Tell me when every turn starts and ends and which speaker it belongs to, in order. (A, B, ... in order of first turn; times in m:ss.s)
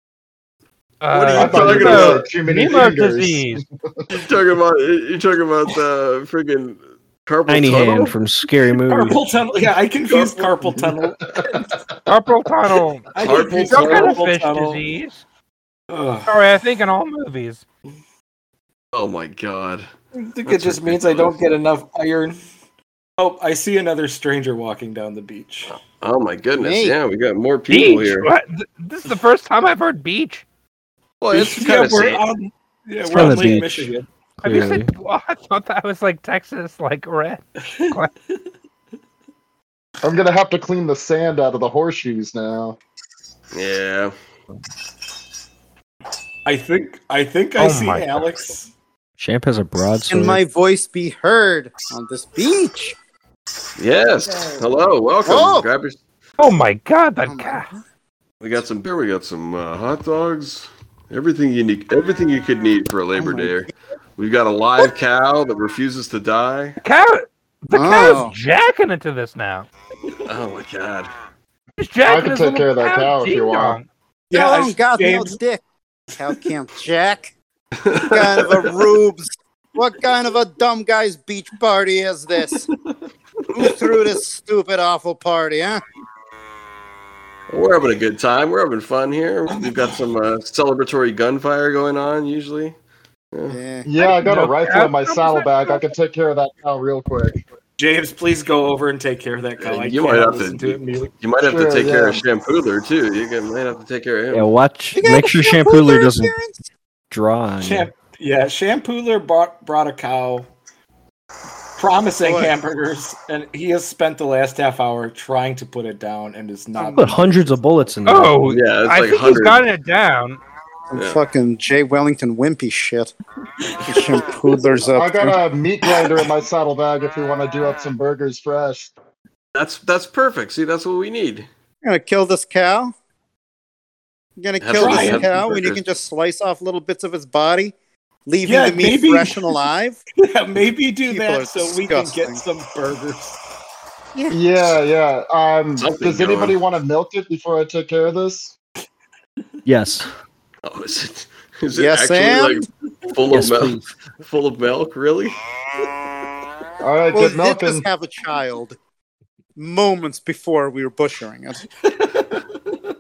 0:01.0-0:03.6 A
0:01.1-0:02.3 B
0:01.3-0:03.6 C
0:04.1-0:08.2 B
0:07.5-0:09.2 D
0:08.8-0:11.7 E
0:10.1-0:10.6 B
0:10.8-0:11.6 C
0:12.1-0:13.1 A
0:13.1-0:14.8 E
0:13.2-0:14.2 B
0:13.6-0:15.2 A
0:15.9-0:16.3 E
0:16.3-0:17.6 A
0:18.9-0:19.9 B
0:20.1-0:22.4 E
0:20.4-0:21.4 B
0:23.2-0:25.7 E
0:25.7-0:28.3 B
0:26.6-0:27.0 F
0:27.7-0:30.4 A
0:31.2-0:32.2 B
0:31.3-0:34.1 E
0:33.0-0:33.9 D
0:34.4-0:38.1 A
0:34.4-0:34.9 D
0:40.0-0:42.8 C
0:43.5-0:44.1 B
0:46.4-0:48.7 E
0:47.6-0:48.2 A
0:49.2-0:50.4 D
0:50.1-0:53.0 F
0:53.8-0:56.0 B
0:55.2-0:55.7 F
0:56.4-0:57.7 A
0:57.3-0:57.8 F
0:58.4-1:06.8 B
1:03.2-1:03.6 F
1:06.8-1:09.7 A
1:07.7-1:08.3 F
1:10.2-1:11.1 B
1:11.8-1:13.9 A
1:12.0-1:13.8 C
1:14.3-1:15.4 E
1:14.3-1:15.6 F
1:16.2-1:17.3 F
1:17.8-1:18.7 B
1:18.0-1:22.6 F
1:23.6-1:25.8 F
1:23.6-1:23.9 B
1:27.5-1:32.8 B
1:29.5-1:29.8 E
1:33.5-1:33.9 F
1:33.9-1:37.4 C
1:34.0-1:35.8 A
1:37.8-1:41.1 E
1:39.6-1:44.5 B
1:41.4-1:42.2 C
1:44.3-1:46.3 D
1:44.9-1:46.7 F
1:47.1-1:47.9 D
1:47.6-1:50.5 E
1:51.8-1:57.4 E
1:52.2-1:52.5 F
1:56.8-1:57.1 F
1:57.0-1:58.5 D
1:58.1-2:00.4 A
1:58.5-1:59.6 B
2:00.9-2:03.1 F
2:01.0-2:01.2 B
2:03.8-2:05.4 F
2:04.9-2:08.9 C
2:09.5-2:11.5 B
2:11.8-2:12.9 F
2:14.4-2:17.7 F
2:14.6-2:15.9 B
2:14.8-2:15.3 E
2:18.3-2:20.0 F
2:18.4-2:19.6 E
2:20.2-2:23.4 E
2:21.0-2:22.4 F
2:24.2-2:24.4 F
2:24.3-2:28.6 C
2:25.8-2:26.6 B
2:29.7-2:30.1 D
2:30.6-2:35.4 B
2:31.7-2:32.7 F
2:33.3-2:33.8 D
2:36.8-2:37.9 C
2:37.1-2:38.8 F
2:39.6-2:41.6 F
2:41.8-2:42.8 E